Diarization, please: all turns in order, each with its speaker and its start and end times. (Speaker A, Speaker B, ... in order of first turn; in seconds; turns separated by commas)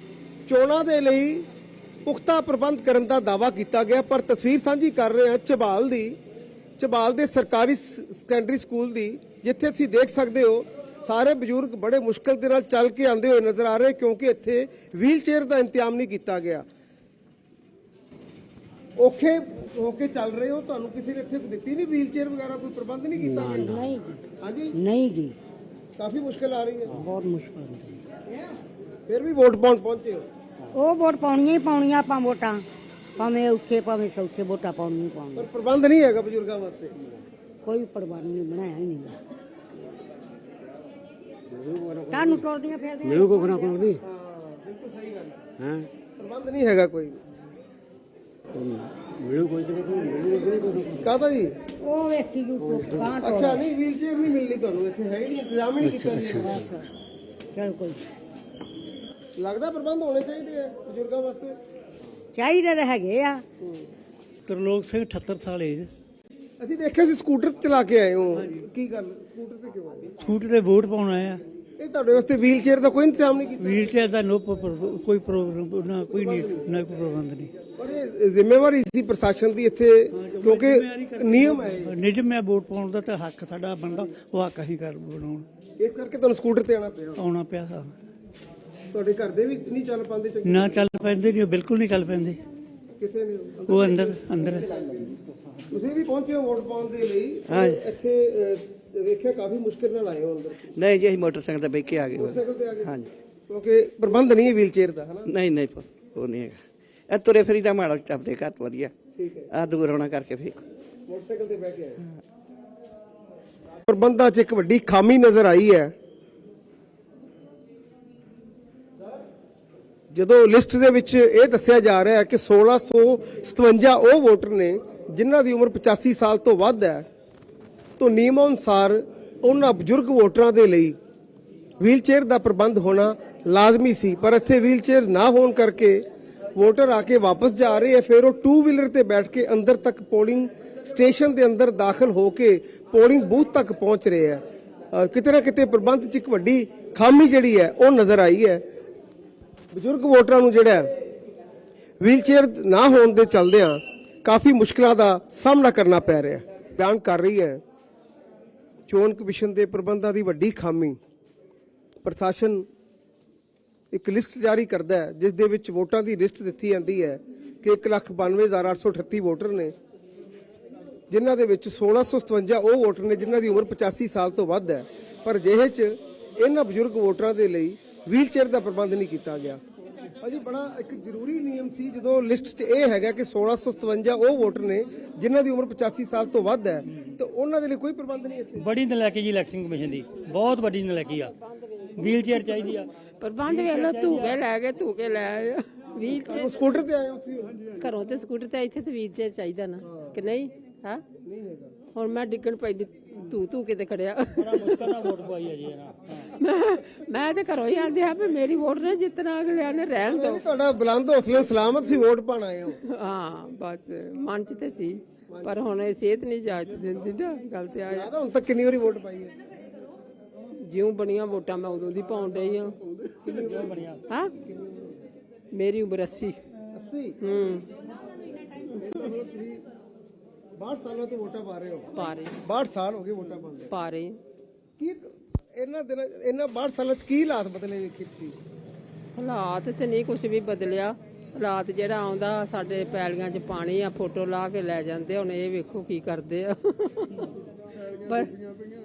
Speaker A: 0.5-1.5, Speaker A: 2.1-6.2, Speaker A: 6.8-16.6, Speaker A: 19.0-24.8, Speaker B: 23.4-24.2, Speaker B: 24.7-25.4, Speaker A: 26.0-27.0, Speaker B: 26.9-28.0, Speaker A: 29.1-30.3, Speaker B: 30.7-32.6, Speaker B: 33.2-35.5, Speaker A: 35.4-37.0, Speaker B: 37.6-39.2, Speaker B: 41.9-44.0, Speaker A: 44.0-45.4, Speaker A: 46.2-47.2, Speaker A: 50.2-51.6, Speaker B: 51.8-53.6, Speaker A: 53.2-56.6, Speaker B: 56.4-56.8, Speaker B: 57.5-58.0, Speaker A: 59.4-61.6, Speaker B: 62.3-63.4, Speaker C: 64.5-65.9, Speaker A: 66.6-70.1, Speaker C: 70.2-71.4, Speaker A: 71.8-73.9, Speaker C: 73.6-77.5, Speaker A: 76.1-76.7, Speaker A: 77.8-82.0, Speaker C: 80.1-85.5, Speaker A: 85.8-87.2, Speaker C: 87.2-87.9, Speaker A: 88.9-90.9, Speaker C: 90.4-92.4, Speaker A: 93.0-95.1, Speaker C: 93.7-94.7, Speaker A: 95.7-100.7, Speaker D: 97.5-97.8, Speaker D: 100.7-103.1, Speaker A: 102.1-103.0, Speaker A: 103.5-105.3, Speaker D: 105.2-108.9, Speaker A: 109.2-109.5, Speaker D: 109.5-110.6, Speaker A: 111.1-112.0, Speaker A: 113.8-115.9, Speaker A: 120.1-127.1, Speaker A: 128.0-131.0, Speaker A: 131.8-136.0, Speaker A: 136.6-148.6, Speaker A: 149.7-150.9, Speaker A: 152.0-157.6, Speaker A: 158.9-161.0, Speaker A: 162.0-162.7, Speaker A: 163.9-169.8, Speaker A: 171.1-179.6, Speaker A: 180.2-188.7, Speaker E: 188.6-191.3, Speaker F: 191.5-192.3, Speaker E: 192.0-192.8, Speaker F: 193.2-196.8, Speaker E: 193.5-194.3, Speaker A: 196.2-197.8, Speaker F: 197.8-201.0, Speaker A: 199.9-200.2, Speaker A: 201.2-201.8, Speaker F: 201.9-205.1, Speaker E: 204.4-206.2, Speaker F: 206.3-210.4, Speaker A: 210.1-212.8, Speaker F: 212.8-218.1, Speaker A: 215.3-215.6, Speaker A: 217.9-219.3, Speaker F: 220.6-222.8, Speaker A: 223.2-223.9, Speaker E: 223.5-224.0, Speaker A: 224.4-224.9, Speaker F: 225.5-226.4, Speaker A: 226.7-227.2, Speaker F: 227.2-227.7, Speaker A: 228.7-229.6, Speaker A: 230.6-231.9, Speaker F: 231.9-232.4, Speaker A: 232.4-233.7, Speaker F: 233.7-234.2, Speaker A: 234.8-238.4, Speaker F: 239.2-247.3, Speaker F: 247.8-248.4